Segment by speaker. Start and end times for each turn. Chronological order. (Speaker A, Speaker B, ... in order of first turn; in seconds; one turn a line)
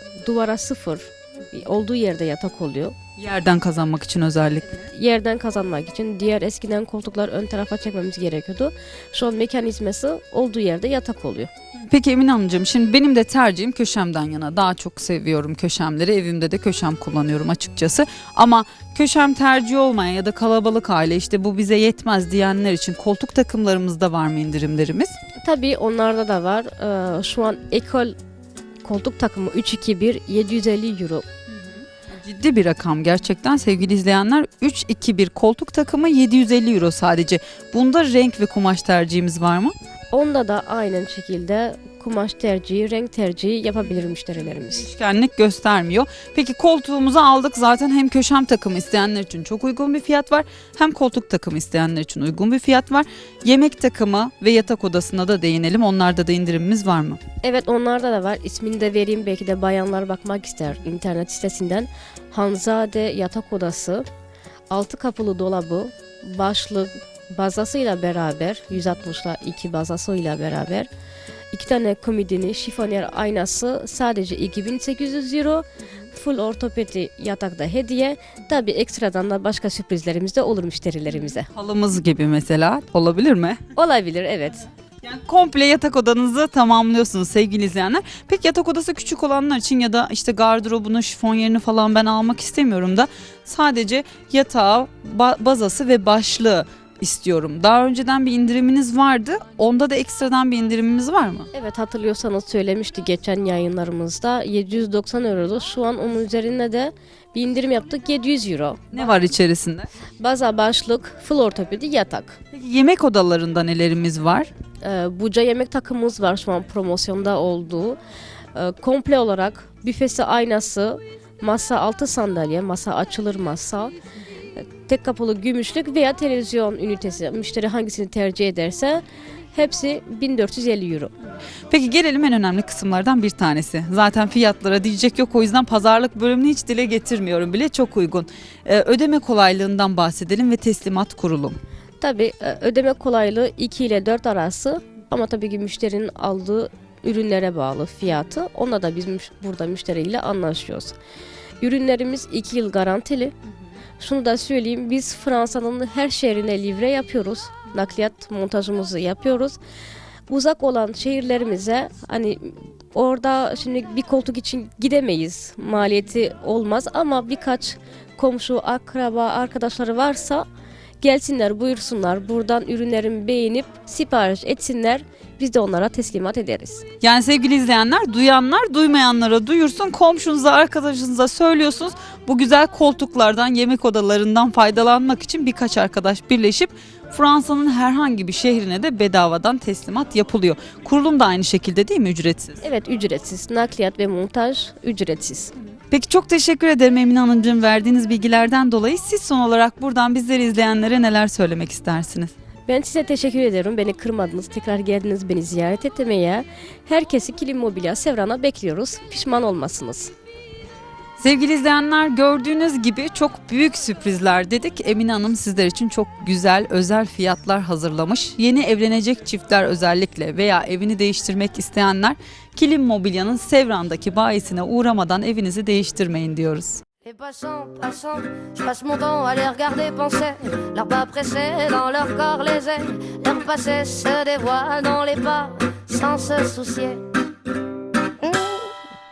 Speaker A: 0.2-2.9
Speaker B: 3.2-4.8
Speaker A: 4.8-11.5
Speaker B: 11.9-25.1
Speaker A: 25.4-28.1
Speaker A: 28.8-31.2
Speaker B: 32.1-39.7
Speaker A: 40.1-44.9
Speaker B: 44.4-57.2
Speaker A: 57.4-64.0
Speaker A: 64.7-70.9
Speaker A: 71.5-81.5
Speaker B: 81.1-83.6
Speaker A: 83.8-84.6
Speaker B: 85.0-101.5
Speaker A: 101.5-109.0
Speaker B: 108.9-109.9
Speaker A: 110.2-112.4
Speaker B: 112.5-114.5
Speaker A: 114.8-118.0
Speaker A: 118.5-123.9
Speaker A: 124.6-131.1
Speaker B: 131.7-141.6
Speaker A: 142.0-150.9
Speaker A: 151.6-153.3
Speaker A: 154.0-159.6
Speaker A: 160.3-170.4
Speaker A: 171.0-176.8
Speaker B: 177.0-192.6
Speaker A: 192.6-195.5
Speaker B: 195.9-202.3
Speaker A: 202.7-210.1
Speaker B: 211.2-226.8
Speaker C: 227.0-237.0
Speaker C: 238.2-238.8